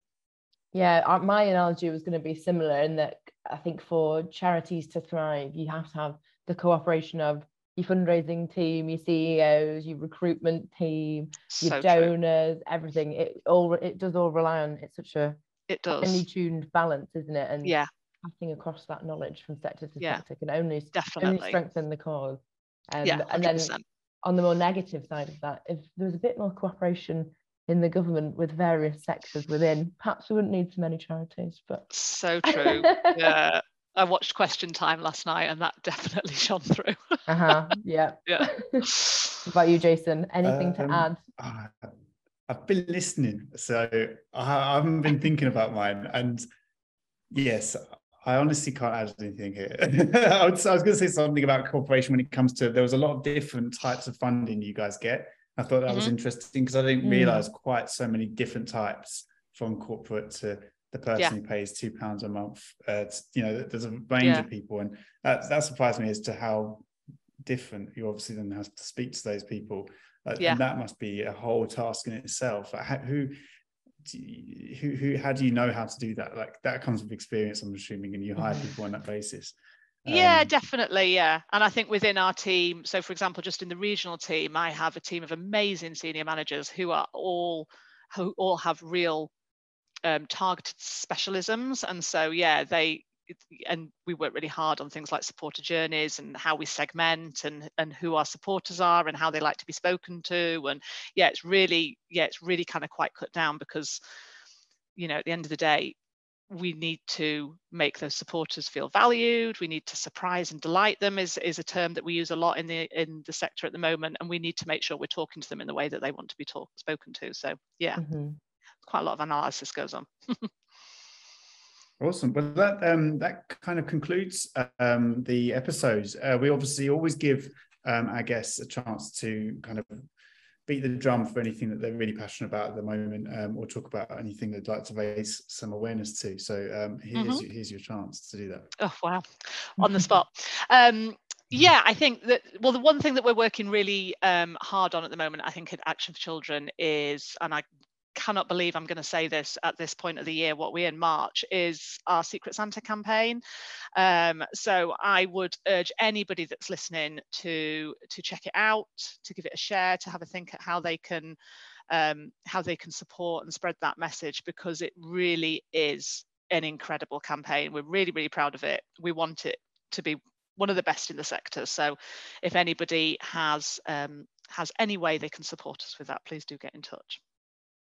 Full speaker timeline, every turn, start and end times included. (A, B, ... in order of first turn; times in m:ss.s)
0:00.7-0:15.4 A
0:11.5-0:12.1 B
0:15.7-0:16.2 B
0:16.0-0:31.9 A
0:20.9-0:21.6 B
0:23.0-0:23.8 B
0:31.9-0:37.6 B
0:32.5-0:33.3 A
0:37.3-0:38.9 A
0:38.3-0:39.4 B
0:39.4-0:41.2 A
0:40.4-0:42.0 C
0:42.5-0:46.4 C
0:47.3-1:06.9 C
0:55.9-0:56.1 B
0:57.0-0:57.5 A
1:04.2-1:04.4 B
1:07.4-1:13.3 C
1:14.0-1:20.5 C
1:18.4-1:18.7 A
1:20.1-1:29.3 B
1:30.0-1:44.0 B
1:45.0-1:46.0 B
1:46.5-1:58.0 B
1:58.0-1:58.4 A
1:58.8-2:00.5 B
2:02.0-2:10.1 C
2:10.7-2:18.7 C
2:17.1-2:17.4 B
2:18.8-2:33.4 B
2:19.8-2:20.0 A
2:34.0-2:41.4 B
2:41.9-2:57.2 B